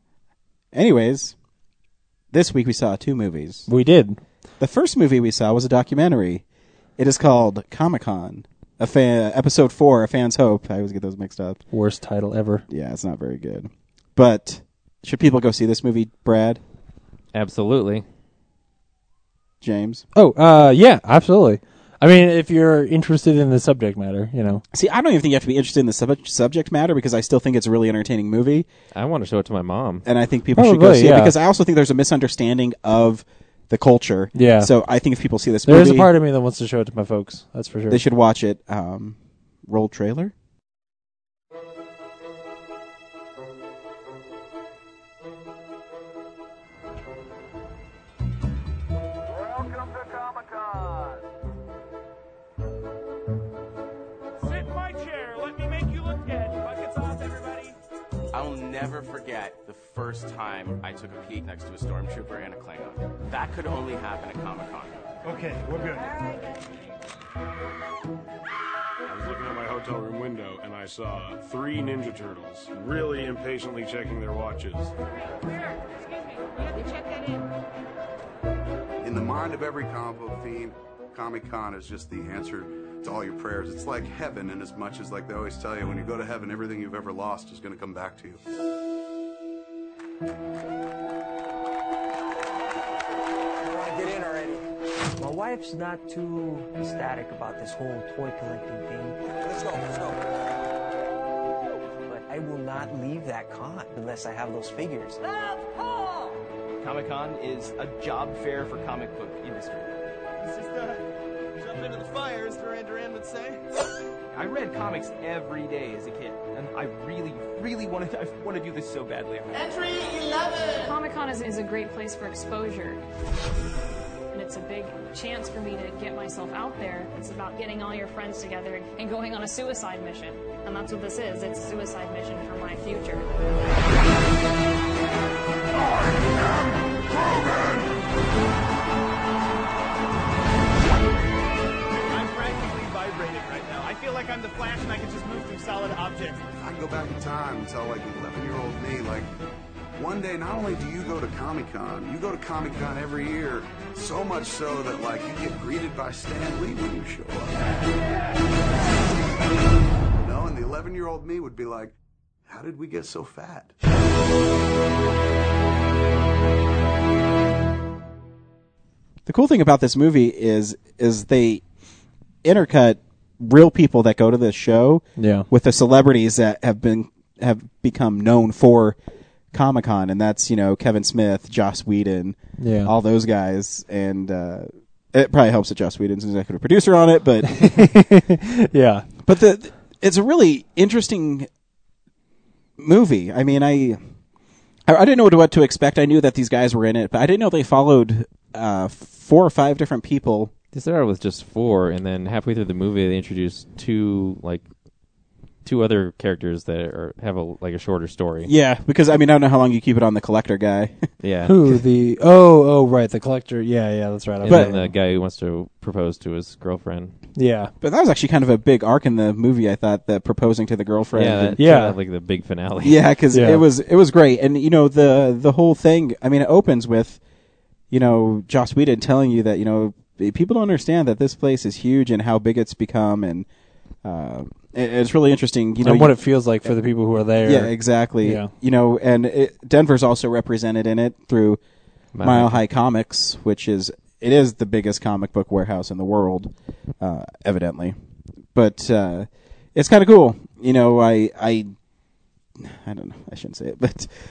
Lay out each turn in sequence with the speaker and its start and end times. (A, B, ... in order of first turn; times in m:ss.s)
0:00.7-0:01.4 A
0:02.3-0:03.7 A
0:03.7-0:04.2 B
0:04.6-0:06.4 A
0:07.0-0:11.6 A
0:11.7-0:12.6 B
0:12.7-0:16.6 A
0:17.3-0:18.0 C
0:19.6-0:20.0 A
0:20.2-0:24.6 B
0:24.7-0:28.7 A
0:28.9-0:30.1 C
0:30.0-0:36.1 A
0:30.6-0:31.4 B
0:34.4-0:34.7 B
0:35.7-0:38.0 B
0:37.9-0:40.3 A
0:56.5-0:57.1 D
0:58.3-1:05.2 E
1:09.0-1:15.0 F
1:19.0-1:28.4 G
1:33.6-1:40.3 H
1:42.1-1:45.6 H
1:46.8-1:49.9 E
1:51.6-1:53.6 E
1:54.3-2:00.0 E
2:00.6-2:03.0 I
2:04.3-2:13.3 I
2:22.1-2:26.5 D
2:26.6-2:29.3 G
2:30.0-2:37.7 G
2:40.2-2:41.9 G
2:42.5-2:43.8 G
2:49.3-2:51.6 A
2:52.4-2:59.0 A
2:55.2-2:55.5 B
2:59.5-3:07.9 A
3:02.6-3:02.9 B
3:07.6-3:09.1 B
3:09.3-3:11.5 A
3:12.8-3:14.0 A
3:14.9-3:20.5 A
3:20.7-3:24.6 C
3:25.6-3:28.5 C
3:28.4-3:31.1 A
3:31.2-3:31.6 C
3:31.5-3:34.9 B
3:34.4-3:37.2 C
3:34.5-3:34.7 A
3:37.4-3:37.7 B
3:37.8-3:41.6 A
3:41.1-3:43.0 C
3:41.6-3:42.0 B
3:42.8-3:47.2 A
3:43.3-3:43.6 B
3:47.9-3:53.5 A
3:54.0-3:56.1 A
3:55.8-3:58.5 B
3:57.4-4:01.6 A
4:02.1-4:02.6 C
4:02.2-4:08.0 A
4:08.6-4:11.7 A
4:12.6-4:14.1 A